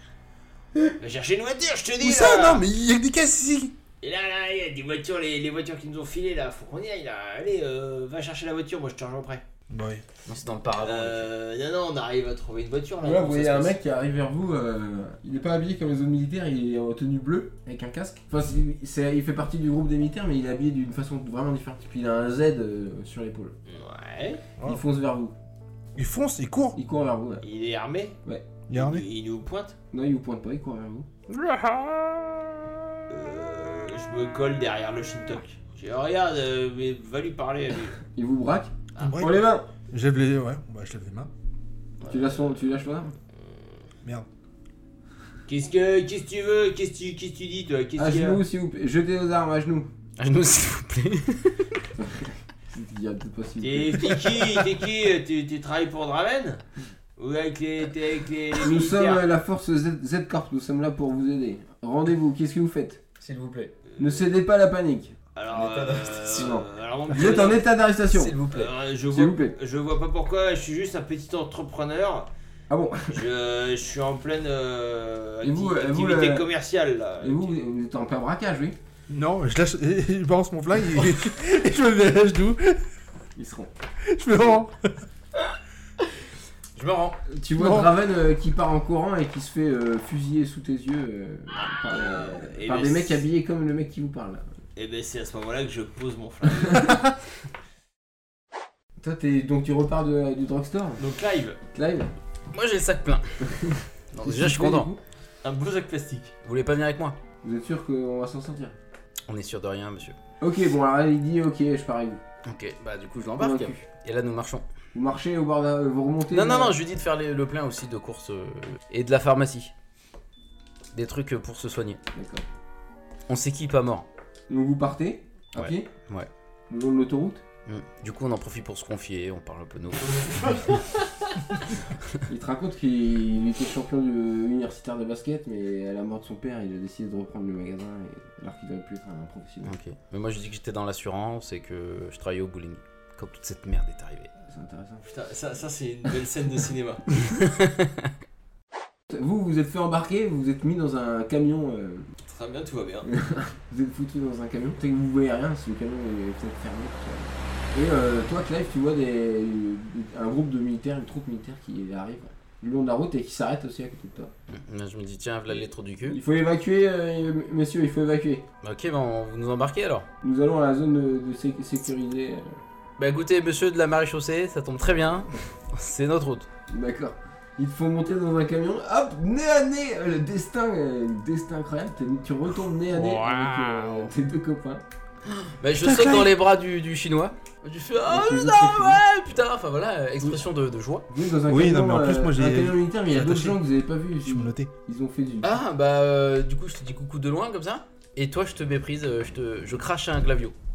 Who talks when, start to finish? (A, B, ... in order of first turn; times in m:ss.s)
0:01.0-0:02.6 A
0:02.0-0:03.7 B
0:04.0-0:09.4 A
0:09.7-0:10.0 B
0:10.2-0:11.3 C
0:10.8-0:13.8 A
0:13.0-0:23.6 D
0:23.7-0:24.4 A
0:24.6-0:25.3 D
0:26.0-0:26.8 B
0:26.7-0:27.4 D
0:27.4-0:28.2 A
0:28.7-0:29.0 B
0:28.7-0:29.8 A
0:29.9-0:31.1 D
0:33.1-0:38.0 A
0:38.1-0:39.7 D
0:39.0-0:39.2 A
0:39.0-0:41.3 B
0:42.0-0:43.1 D
0:45.5-0:48.4 A
0:48.0-0:49.9 D
0:50.2-0:51.8 C
0:52.0-0:54.2 D
0:53.6-0:56.6 A
0:57.2-0:59.3 A
0:58.6-1:03.0 D
1:03.2-1:03.7 C
1:03.9-1:04.2 A
1:04.0-1:05.2 D
1:05.3-1:07.6 A
1:05.5-1:06.5 C
1:06.3-1:08.4 D
1:08.1-1:08.7 C
1:08.5-1:12.3 A
1:09.1-1:09.6 D
1:12.7-1:13.2 D
1:13.1-1:17.6 A
1:15.4-1:16.5 D
1:17.2-1:18.8 D
1:19.1-1:22.8 B
1:23.4-1:23.7 D
1:24.1-1:24.9 B
1:26.7-1:27.2 C
1:27.3-1:34.5 D
1:27.6-1:27.9 B
1:31.5-1:33.2 A
1:34.8-1:37.0 A
1:39.0-1:41.0 D
1:41.0-1:41.6 A
1:41.7-1:42.1 D
1:42.5-1:43.2 C
1:43.5-1:45.0 D
1:44.1-1:44.9 C
1:45.4-1:46.3 A
1:46.4-1:47.2 C
1:47.4-1:48.8 D
1:49.3-1:50.2 C
1:50.4-1:52.2 D
1:52.4-1:54.6 C
1:53.4-1:53.8 D
1:54.9-1:56.8 D
1:56.3-1:59.7 C
2:00.9-2:02.0 C
2:02.1-2:02.4 D
2:03.3-2:04.1 C
2:04.5-2:05.9 D
2:05.6-2:06.3 C
2:06.7-2:07.4 D
2:07.7-2:10.7 C
2:12.3-2:19.8 D
2:19.6-2:24.3 C
2:24.5-2:25.0 D
2:25.0-2:27.0 A
2:27.3-2:28.1 C
2:29.1-2:32.1 D
2:32.2-2:33.1 A
2:33.0-2:44.3 D
2:44.5-2:46.2 C
2:46.1-2:48.4 D
2:48.6-2:50.1 C
2:50.2-2:52.6 D
2:53.0-2:56.5 C
2:56.7-3:04.8 D
3:05.6-3:11.1 C
3:05.8-3:06.3 B
3:08.0-3:09.0 D
3:11.1-3:15.6 D
3:11.5-3:13.6 B
3:14.2-3:14.7 B
3:15.4-3:20.5 C